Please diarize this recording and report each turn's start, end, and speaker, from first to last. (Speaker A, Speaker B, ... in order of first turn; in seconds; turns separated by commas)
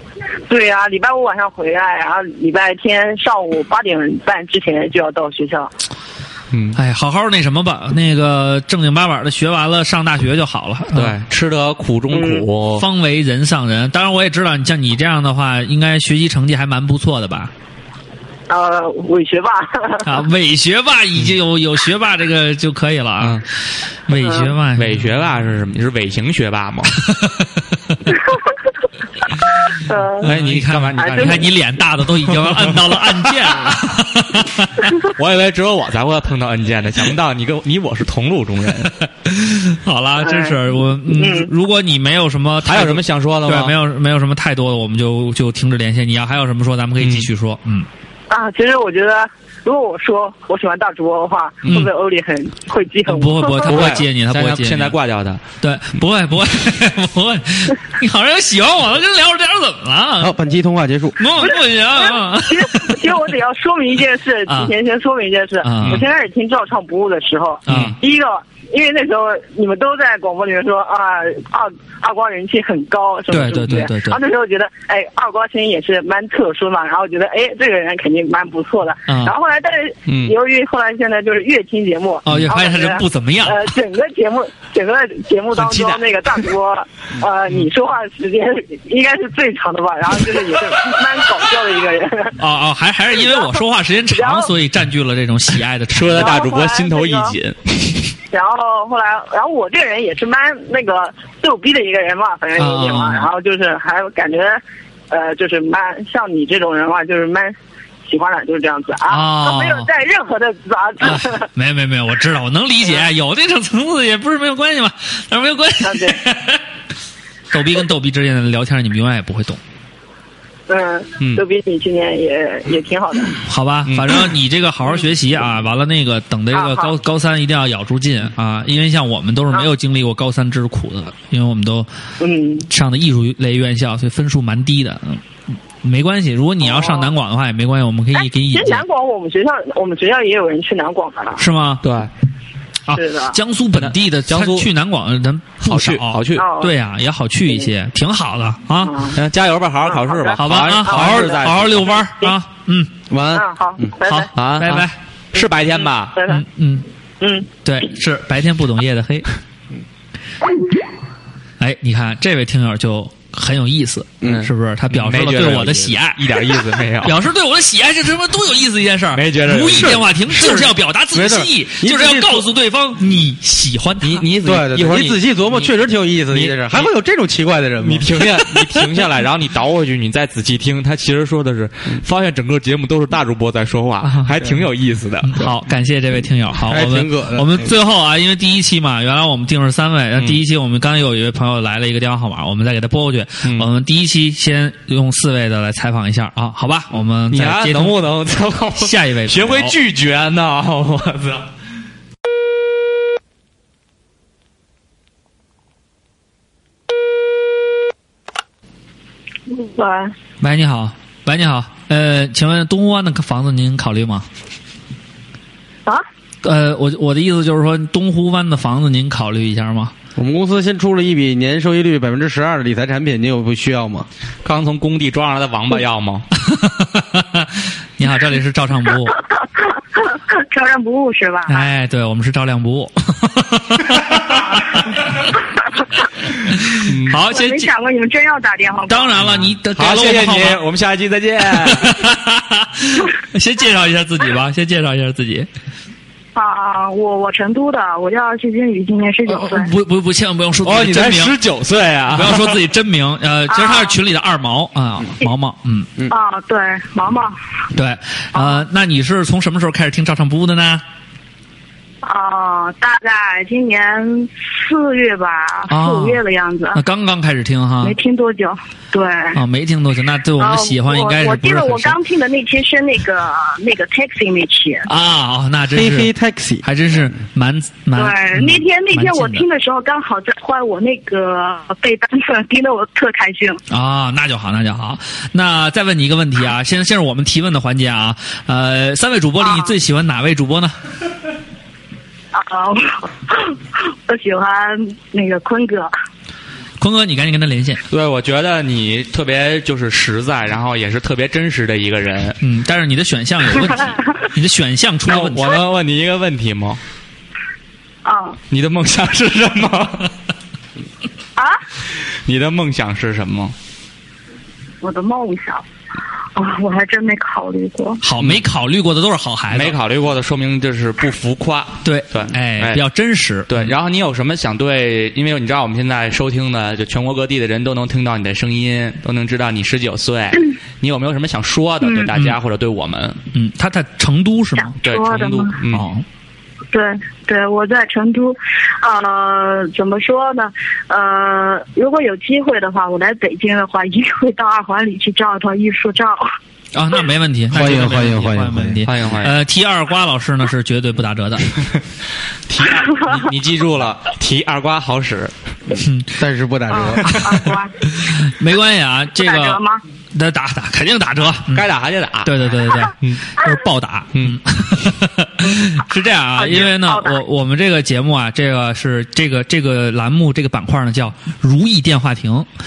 Speaker A: 0.5-5.7, Speaker B: 6.5-6.8, Speaker C: 6.7-11.2, Speaker B: 10.9-12.8, Speaker A: 12.1-12.4, Speaker C: 12.8-17.5, Speaker A: 18.5-20.1, Speaker C: 20.0-23.4, Speaker C: 24.1-25.1, Speaker A: 24.2-24.5, Speaker B: 24.8-26.9, Speaker C: 27.1-27.4, Speaker A: 29.8-30.3, Speaker B: 30.2-31.5, Speaker C: 30.2-34.8, Speaker A: 31.0-31.5, Speaker B: 32.3-32.8, Speaker B: 35.0-38.9, Speaker C: 39.2-47.9, Speaker A: 40.2-41.5, Speaker B: 42.6-43.8, Speaker B: 47.0-47.3, Speaker A: 48.3-53.9, Speaker C: 53.1-55.0, Speaker B: 53.6-55.4, Speaker C: 55.6-60.3, Speaker D: 60.2-61.2, Speaker C: 61.2-63.0, Speaker A: 61.4-92.4, Speaker C: 64.5-64.7, Speaker C: 65.6-66.0, Speaker C: 67.7-67.9, Speaker B: 67.7-67.9, Speaker C: 73.3-74.2, Speaker C: 79.1-79.3, Speaker B: 80.1-80.3, Speaker C: 82.2-83.7, Speaker B: 85.6-86.0, Speaker C: 92.4-96.4, Speaker A: 93.1-93.6, Speaker A: 94.1-94.5, Speaker B: 95.9-98.0, Speaker A: 96.2-97.3, Speaker A: 98.3-111.5, Speaker C: 102.5-103.3, Speaker C: 109.1-109.9, Speaker C: 111.0-116.6, Speaker A: 115.8-116.2, Speaker C: 117.5-119.6, Speaker A: 120.7-123.4, Speaker C: 123.5-131.9, Speaker B: 123.9-124.2, Speaker A: 126.5-126.9, Speaker A: 132.2-132.7, Speaker C: 132.7-135.2, Speaker C: 135.8-138.8, Speaker A: 136.6-137.1, Speaker A: 138.2-141.4, Speaker C: 141.4-141.8, Speaker B: 141.8-142.1, Speaker C: 142.9-148.9, Speaker A: 142.9-143.4, Speaker B: 143.8-144.7, Speaker B: 145.6-146.5, Speaker A: 146.4-146.7, Speaker A: 148.8-149.2, Speaker B: 149.1-151.9, Speaker A: 149.8-152.4, Speaker C: 150.4-152.9, Speaker D: 153.1-153.9, Speaker A: 153.3-154.3, Speaker C: 154.0-154.9, Speaker B: 154.3-156.2, Speaker A: 155.7-156.4, Speaker C: 156.3-156.8, Speaker A: 157.2-157.5, Speaker C: 157.6-159.3, Speaker C: 161.6-166.2, Speaker B: 164.2-167.2, Speaker C: 167.0-174.2, Speaker B: 169.1-170.1, Speaker D: 170.3-172.5, Speaker B: 174.0-175.7, Speaker D: 174.4-178.2, Speaker B: 176.3-176.9, Speaker B: 177.8-185.5, Speaker C: 184.0-184.3, Speaker C: 185.2-198.0, Speaker D: 186.7-187.7, Speaker B: 197.3-201.5, Speaker C: 198.8-199.7, Speaker E: 209.6-210.1, Speaker C: 210.4-214.2, Speaker C: 216.4-219.9, Speaker D: 220.2-224.1, Speaker B: 224.4-226.3, Speaker C: 226.4-229.2, Speaker E: 229.6-231.7, Speaker C: 231.5-234.8, Speaker C: 236.4-237.7, Speaker B: 236.9-237.2, Speaker E: 237.3-239.2, Speaker C: 238.9-240.6, Speaker B: 239.3-242.0, Speaker C: 241.6-245.5, Speaker E: 246.3-249.7, Speaker C: 249.3-251.4, Speaker B: 250.6-252.6, Speaker C: 252.1-255.9, Speaker E: 253.5-254.0, Speaker E: 256.1-257.3, Speaker C: 257.7-260.8, Speaker E: 258.3-258.6, Speaker E: 262.0-266.8, Speaker C: 265.7-266.2, Speaker C: 266.7-267.9, Speaker E: 267.8-269.4, Speaker C: 269.3-272.0, Speaker E: 270.4-274.9, Speaker C: 274.9-276.1, Speaker D: 275.7-276.6, Speaker C: 276.6-279.4, Speaker E: 277.9-283.6, Speaker C: 283.7-290.7, Speaker E: 289.4-289.7, Speaker E: 292.3-295.9, Speaker C: 296.8-297.8, Speaker B: 297.9-302.4, Speaker C: 302.4-305.6, Speaker B: 305.1-306.8, Speaker E: 308.0-308.4, Speaker B: 308.5-310.1, Speaker B: 312.2-313.5, Speaker E: 314.8-315.6, Speaker E: 316.4-318.0, Speaker C: 318.0-319.8, Speaker B: 319.5-322.8, Speaker C: 321.8-323.7, Speaker B: 323.5-333.2, Speaker E: 331.8-332.1, Speaker C: 333.3-334.8, Speaker E: 334.6-335.6, Speaker B: 334.8-335.9, Speaker C: 335.7-336.0, Speaker E: 336.7-346.3, Speaker C: 346.7-351.5, Speaker D: 347.5-348.8, Speaker B: 348.9-349.4, Speaker B: 352.5-355.3, Speaker C: 355.8-356.1, Speaker D: 356.2-357.1, Speaker E: 356.7-357.7, Speaker C: 357.0-359.6, Speaker E: 359.1-359.8, Speaker C: 360.1-361.6, Speaker B: 361.5-362.4, Speaker C: 362.2-372.5, Speaker E: 366.4-367.2